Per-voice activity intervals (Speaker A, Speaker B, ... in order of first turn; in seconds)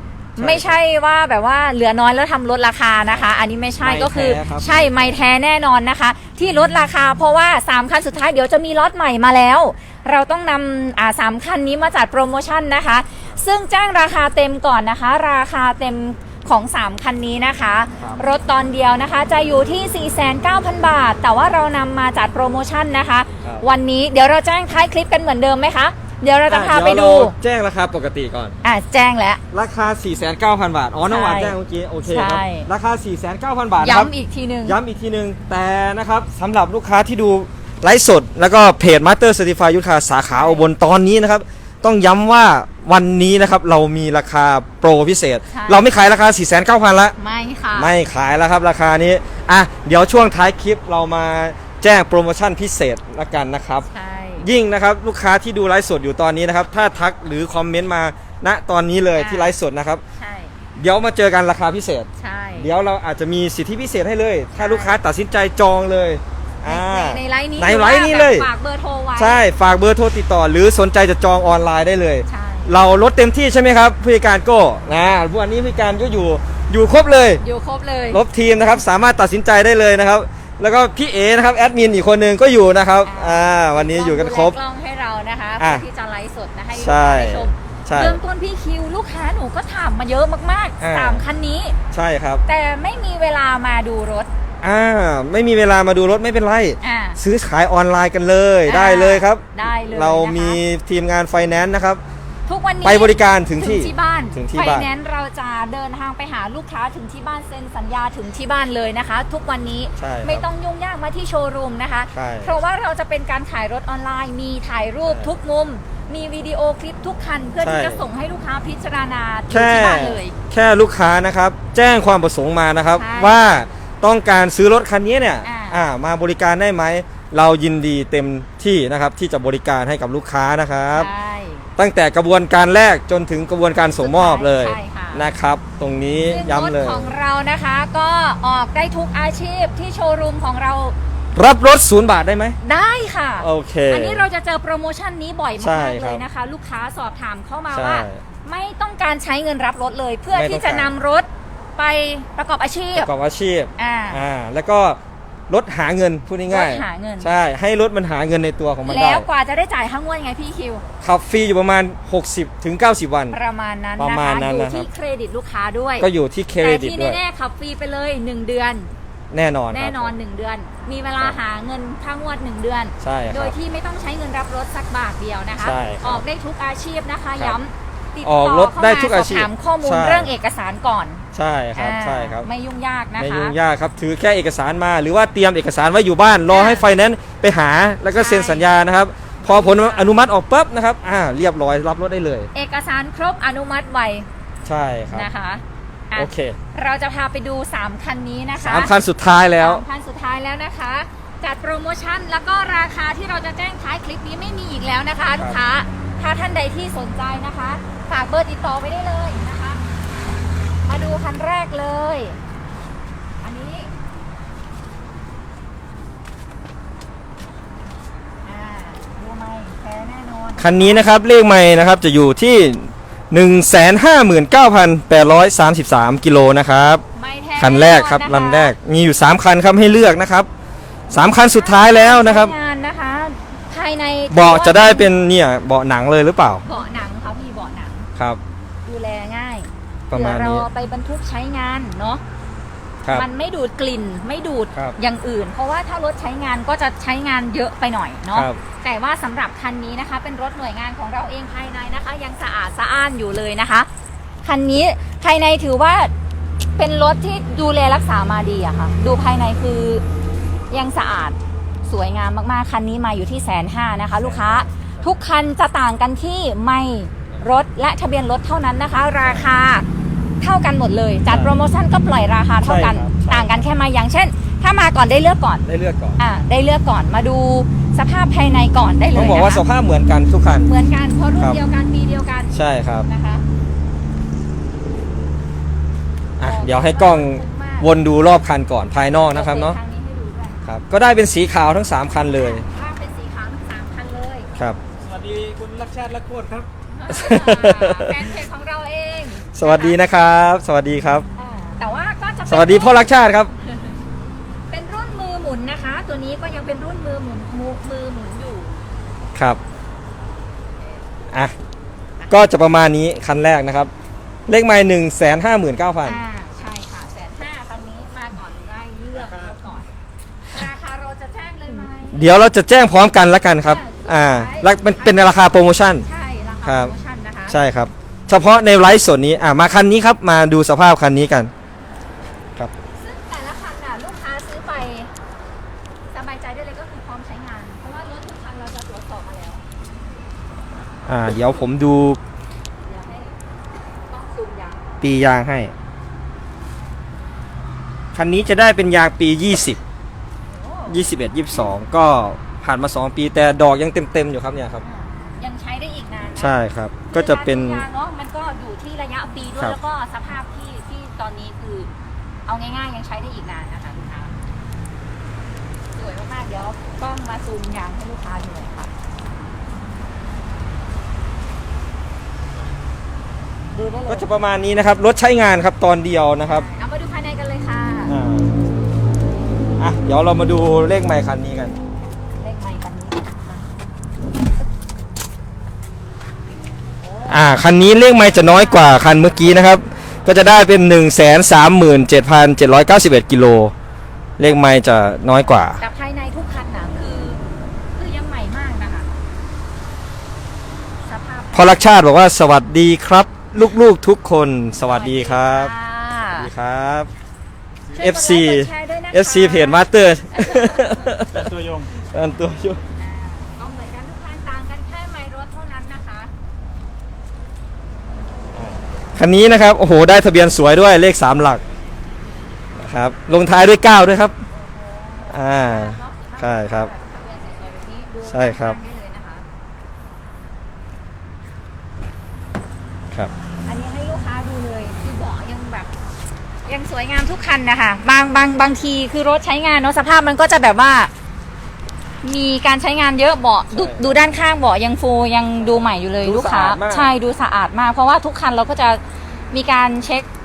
Speaker A: 0.4-0.8, 3.8-5.2, 23.4-23.6, 26.5-28.6, 29.5-34.1, 34.6-47.1, 47.7-53.9, 54.4-60.0, 60.8-62.1, 62.6-68.5, 69.2-77.4, 78.1-84.5, 85.6-85.8, 86.7-88.2, 90.8-91.2, 91.9-92.4, 94.6-102.0, 102.8-104.9, 110.0-110.4, 112.1-112.5, 115.0-115.3, 117.6-118.0, 119.5-131.1, 131.8-137.1, 141.3-142.6, 143.4-144.2, 145.6-146.2, 147.7-148.2, 150.3-150.9, 152.9-159.2, 161.0-163.3, 164.0-164.8, 166.0-167.2, 169.3-170.1, 173.0-173.5, 175.6-176.2, 178.2-180.3, 181.3-182.5, 183.2-192.5, 194.6-195.3, 196.2-196.6, 198.6-199.8, 220.6-227.0, 227.6-230.5, 231.1-232.5, 234.3-236.7, 240.1-240.7, 248.3-248.6, 264.1-264.7, 269.2-269.5, 271.3-271.6, 272.6-273.6, 275.6-276.2, 279.1-280.7, 282.5-283.1, 286.4-289.8, 290.6-292.6, 297.1-298.3, 299.5-301.3, 302.5-303.5, 309.3-309.6, 312.3-313.9, 314.5-316.2, 322.1-326.0, 326.6-326.9, 327.5-331.5, 341.1-342.2, 345.0-345.7, 348.1-349.8, 350.9-354.8, 356.4-357.8, 374.1-376.6, 378.1-378.5, 379.8-381.8, 387.3-393.7, 394.4-395.8, 401.5-405.7, 406.4-407.1, 408.0-411.5, 412.1-412.8, 418.5-421.6, 422.8-424.4, 425.3-426.9, 428.3-428.8, 443.7-444.2, 445.6-447.1
Speaker B: 0.4-27.3, 28.6-29.4, 31.1-31.5, 32.1-32.7, 33.8-34.8, 40.3-40.7, 45.5-45.8, 47.2-47.9, 53.9-54.5, 59.2-59.5, 60.1-60.5, 62.2-62.7, 64.5-65.0, 66.7-69.4, 72.3-72.8, 77.4-78.2, 83.0-91.8, 92.5-94.3, 96.8-97.2, 98.7-100.6, 102.5-120.3, 123.0-123.4, 125.4-125.8, 130.9-131.7, 134.0-135.3, 136.2-140.9, 142.6-153.1, 153.8-154.2, 156.5-157.3, 158.8-160.8, 163.3-166.1, 166.6-168.9, 169.7-181.2, 181.8-183.6, 186.5-186.9, 188.1-188.7, 189.4-190.1, 192.5-194.3, 195.1-198.9, 199.6-209.8, 210.8-212.4, 213.4-213.9, 218.4-221.0, 227.1-228.7, 231.4-235.1, 236.6-238.1, 238.8-242.2, 243.1-253.9, 254.4-256.1, 256.8-260.0, 260.7-261.4, 261.9-269.9, 270.4-275.6, 276.2-279.6, 280.6-283.4, 286.4-287.9, 288.9-290.6, 292.4-294.5, 296.9-300.0, 301.4-303.1, 304.7-308.7, 316.0-319.9, 320.5-322.3, 323.6-325.4, 326.0-327.6, 333.0-335.1, 336.1-339.6, 342.8-343.4, 344.1-344.9, 350.5-351.7, 354.8-356.6, 357.1-361.9, 362.5-364.3, 365.9-368.9, 373.7-374.2, 376.4-378.1, 382.4-383.6, 387.0-387.4, 388.2-389.2, 395.6-397.4, 397.9-399.1, 401.1-401.8, 404.9-406.5, 407.9-411.1, 413.0-416.3, 424.5-429.4, 433.6-435.9, 436.6-441.1, 442.2-450.3
Speaker C: 295.0-296.7, 411.3-412.0